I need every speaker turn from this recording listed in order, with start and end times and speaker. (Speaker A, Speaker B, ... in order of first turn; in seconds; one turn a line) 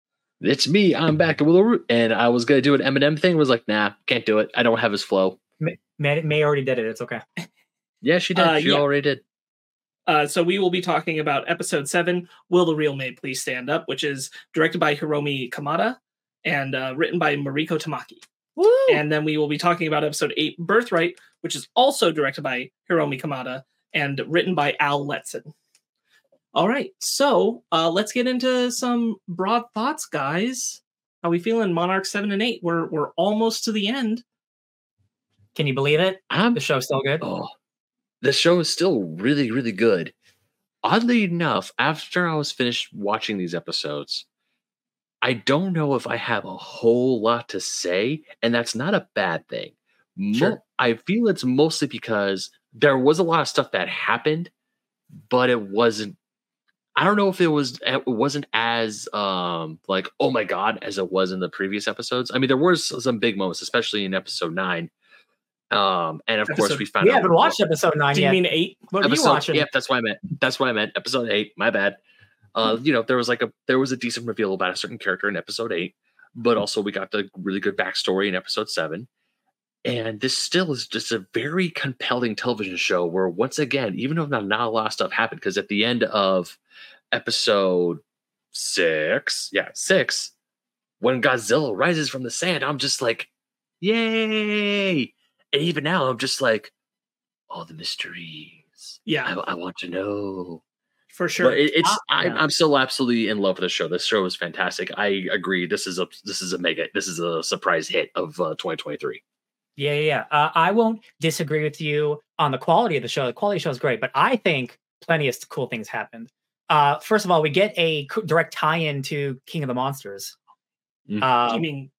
Speaker A: 0.4-5.4
Speaker B: 5.6-7.2
Speaker A: 8.0-9.2
Speaker C: 8.3-8.8
Speaker C: 10.1-18.2
Speaker B: 18.6-19.0
Speaker C: 18.9-25.5
Speaker C: 26.5-34.2
Speaker B: 35.5-37.2
Speaker A: 36.3-36.6
Speaker A: 37.2-37.5
Speaker A: 38.2-40.1
Speaker A: 40.8-44.3
Speaker A: 45.2-54.5
Speaker A: 55.3-56.2
Speaker A: 57.0-64.9
Speaker A: 65.7-67.6
Speaker C: 66.5-66.9
Speaker B: 67.0-69.7
Speaker C: 68.1-68.9
Speaker A: 69.0-72.0
Speaker A: 72.5-79.1
Speaker A: 79.8-86.6
Speaker A: 87.1-88.0
Speaker A: 88.5-90.3
Speaker A: 91.0-93.3
Speaker A: 93.8-96.7
Speaker A: 97.5-100.6
Speaker C: 99.1-99.3
Speaker C: 101.1-101.6
Speaker A: 101.4-109.2
Speaker B: 101.8-102.4
Speaker B: 109.8-120.4
Speaker A: 121.1-121.3
Speaker B: 121.2-121.7
Speaker C: 121.5-121.9